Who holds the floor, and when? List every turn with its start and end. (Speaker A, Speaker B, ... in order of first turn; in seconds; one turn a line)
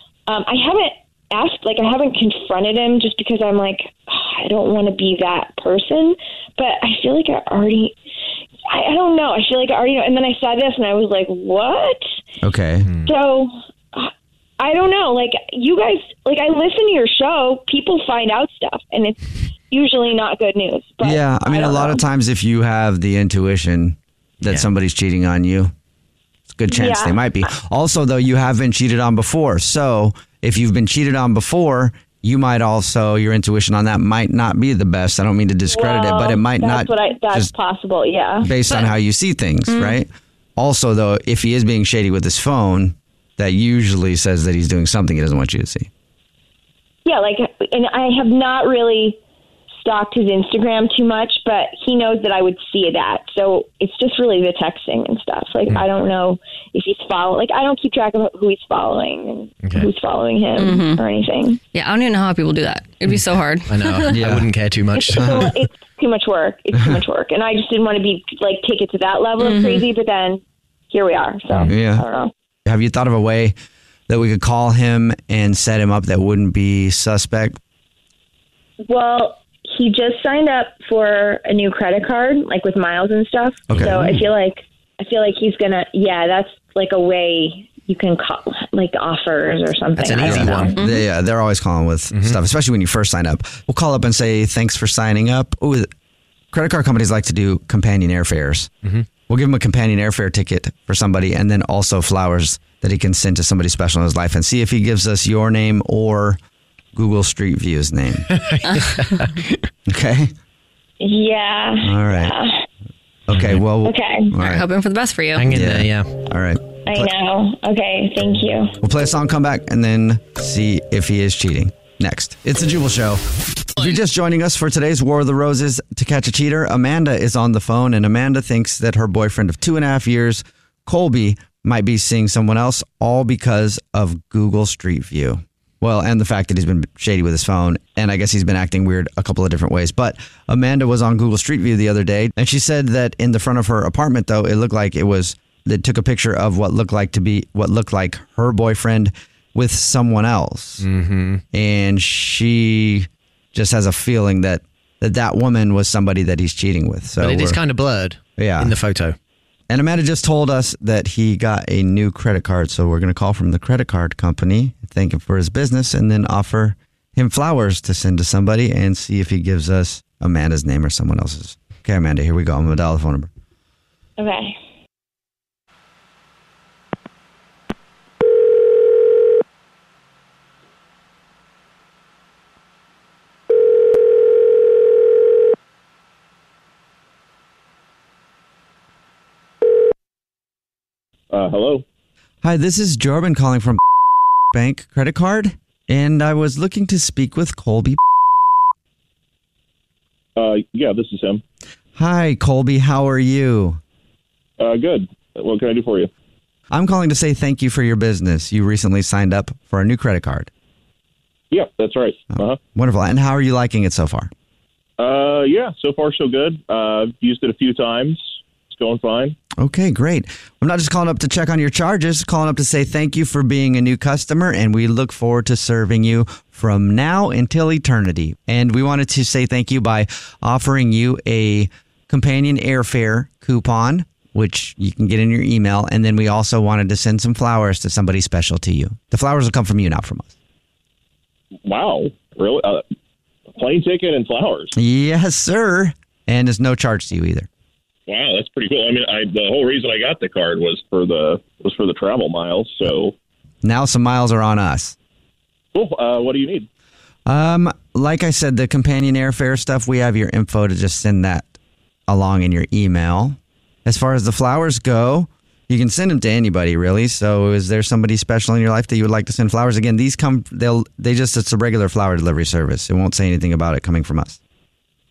Speaker A: 0.3-8.0
Speaker A: 8.7-12.2
Speaker B: 12.4-12.9
Speaker A: 13.1-22.0
Speaker B: 21.0-25.7
Speaker B: 26.5-37.5
Speaker A: 26.7-27.5
Speaker A: 35.7-38.5
Speaker B: 38.4-45.9
Speaker C: 38.7-38.9
Speaker C: 39.7-40.0
Speaker A: 47.0-49.2
Speaker A: 49.8-61.6
Speaker D: 59.6-59.9
Speaker C: 60.6-61.0
Speaker C: 61.7-64.3
Speaker D: 63.1-65.6
Speaker B: 64.1-64.5
Speaker A: 64.9-72.3
Speaker C: 69.4-69.9
Speaker B: 71.7-72.0
Speaker B: 72.7-73.5
Speaker B: 74.1-77.6
Speaker A: 78.9-90.8
Speaker B: 83.7-84.2
Speaker D: 90.0-90.8
Speaker B: 90.2-95.9
Speaker C: 90.7-91.0
Speaker D: 92.1-92.4
Speaker B: 96.5-98.7
Speaker B: 99.3-106.4
Speaker B: 107.0-108.3
Speaker D: 108.3-109.4
Speaker B: 109.9-110.3
Speaker A: 111.0-112.6
Speaker B: 111.8-112.3
Speaker B: 113.3-114.7
Speaker A: 113.8-114.3
Speaker C: 114.3-115.5
Speaker D: 115.4-116.1
Speaker B: 115.5-117.1
Speaker A: 116.9-118.8
Speaker B: 118.8-150.9
Speaker D: 150.8-151.4
Speaker B: 151.5-157.6
Speaker D: 157.2-159.2
Speaker B: 158.4-158.8
Speaker B: 159.7-173.3
Speaker A: 174.2-174.6
Speaker E: 191.3-191.8
Speaker B: 192.4-193.8
Speaker B: 194.5-198.0
Speaker E: 200.4-201.4
Speaker B: 202.0-203.8
Speaker E: 204.6-206.1
Speaker B: 206.7-210.5
Speaker E: 211.5-212.6
Speaker B: 212.4-214.3
Speaker E: 215.0-219.4
Speaker B: 219.6-240.3
Speaker E: 241.7-242.8
Speaker E: 243.6-244.8
Speaker B: 244.8-247.5
Speaker E: 248.1-253.1
Speaker B: 253.6-254.9
Speaker E: 255.7-256.7
Speaker B: 257.3-261.5
Speaker B: 262.1-274.4